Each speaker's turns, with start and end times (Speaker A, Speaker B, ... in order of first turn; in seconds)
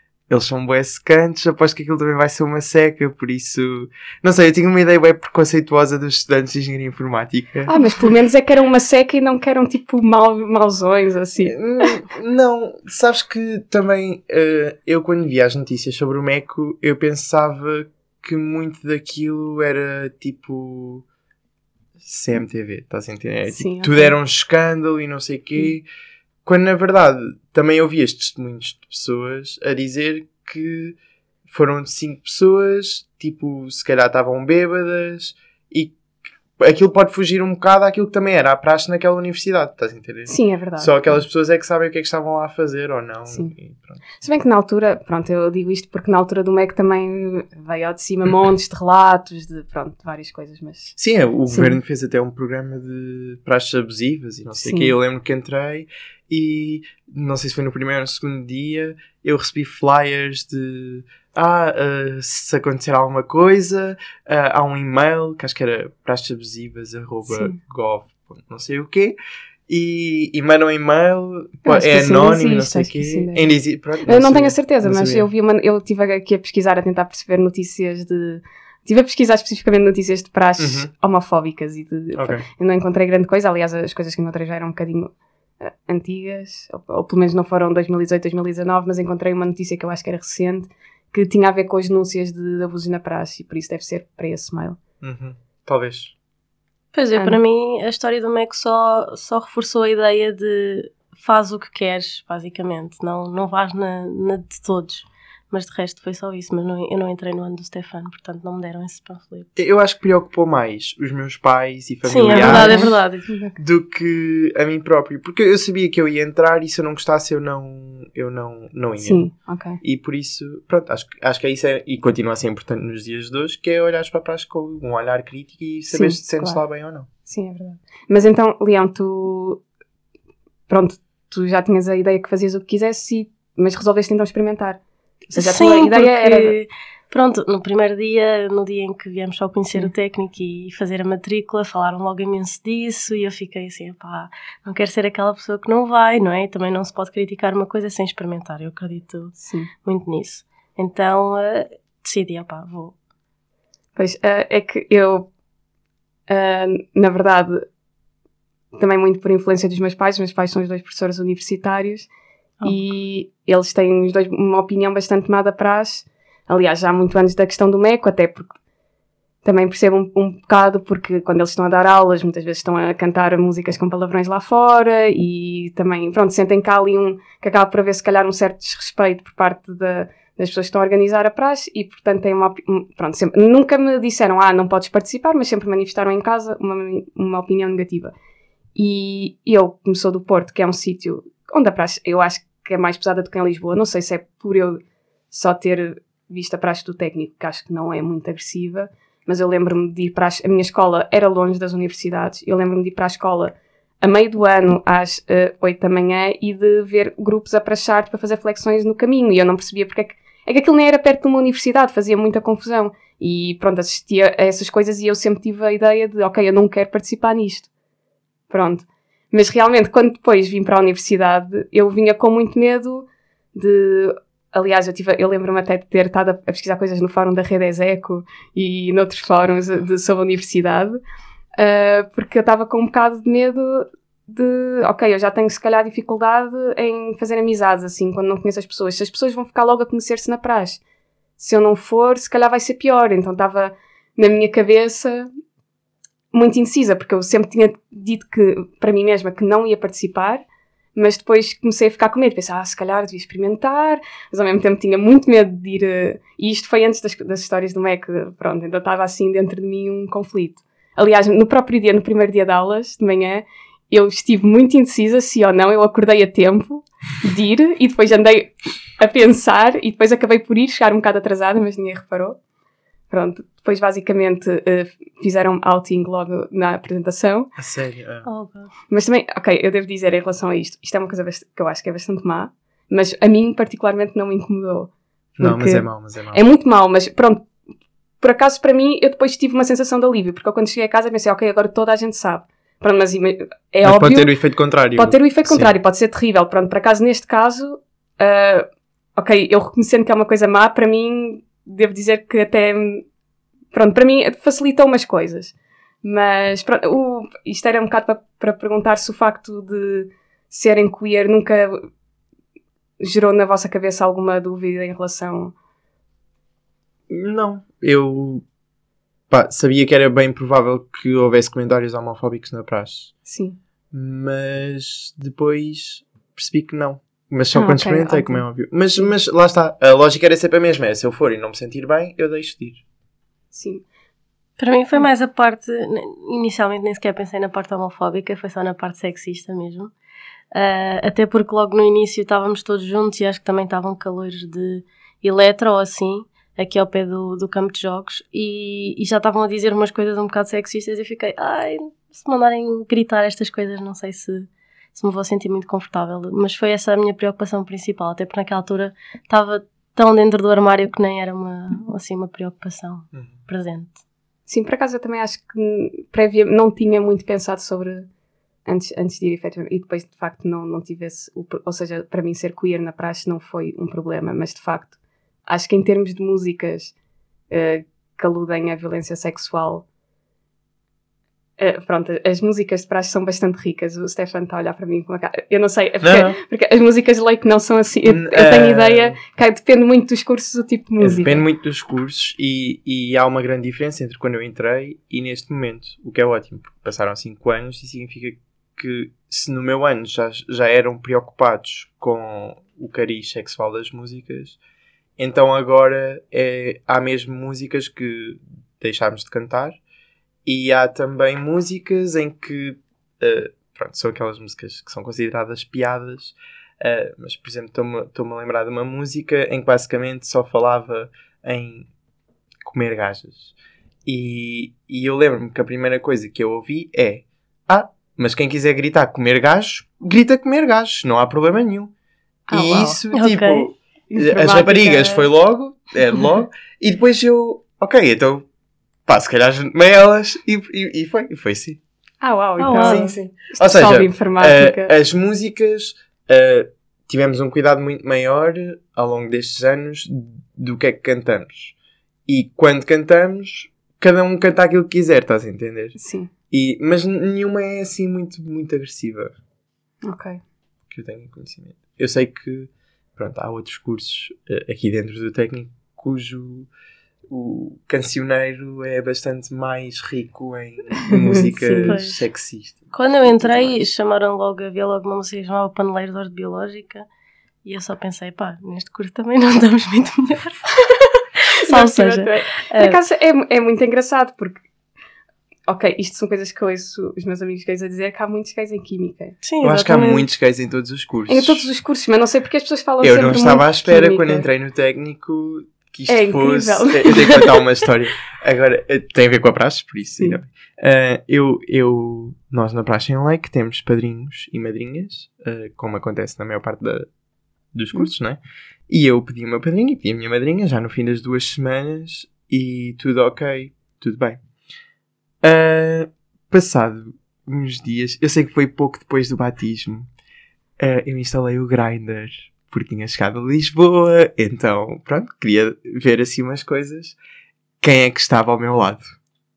Speaker A: 0.3-7.7, 11.4-21.1, 22.0-25.8, 26.4-36.0, 36.6-44.0, 51.0-69.2, 69.7-75.3, 80.6-80.9, 82.2-82.5, 95.0-96.1, 109.6-112.9, 113.6-119.2, 119.8-127.1, 277.6-278.3, 285.4-286.4, 293.8-295.7, 317.1-318.4, 319.3-323.1, 323.9-332.8, 386.0-386.4, 388.1-389.2, 391.0-404.6, 405.2-409.8, 410.4-421.9, 422.6-423.5, 424.1-431.9, 432.5-438.4, 439.1-441.8, 442.7-451.8, 452.3-455.9, 456.5-459.3, 460.9-466.7, 467.3-473.8, 489.6-491.7, 493.0-507.1, 507.7-514.4, 515.4-520.1, 520.8-527.1, 527.8-529.1
Speaker B: 7.7-12.0, 23.5-24.1, 40.3-41.2, 43.3-43.5, 44.2-51.0, 51.5-51.8, 54.6-54.9, 67.3-67.6, 71.7-73.5, 74.0-94.8, 112.3-113.6, 119.0-119.8, 125.9-126.6, 127.2-129.6, 130.7-134.8, 135.3-136.6, 149.4-149.7, 153.9-155.3, 156.3-157.7, 158.8-162.1, 162.7-168.5, 169.4-188.1, 188.8-194.8, 195.3-217.7, 218.5-231.0, 231.6-240.8, 241.4-245.3, 246.3-250.4, 250.9-272.4, 273.1-277.5, 278.9-287.5, 288.2-294.3, 294.9-303.0, 303.7-311.8, 313.0-315.5, 323.2-323.6, 327.5-328.4, 333.5-333.9, 364.5-368.1, 368.7-374.9, 375.5-376.9, 377.5-379.8, 381.6-391.4, 432.5-433.0, 434.1-435.3, 442.2-444.9, 455.9-456.3, 460.0-460.4, 471.1-471.9, 481.6-484.6, 485.7-489.4, 491.3-494.5, 496.1-497.5
Speaker C: 96.9-109.5, 112.1-113.3, 135.3-152.9, 278.2-278.7, 334.6-339.9, 340.5-363.9, 433.1-433.7, 442.6-443.1, 471.4-472.3, 472.9-477.1, 477.6-483.0, 489.4-490.2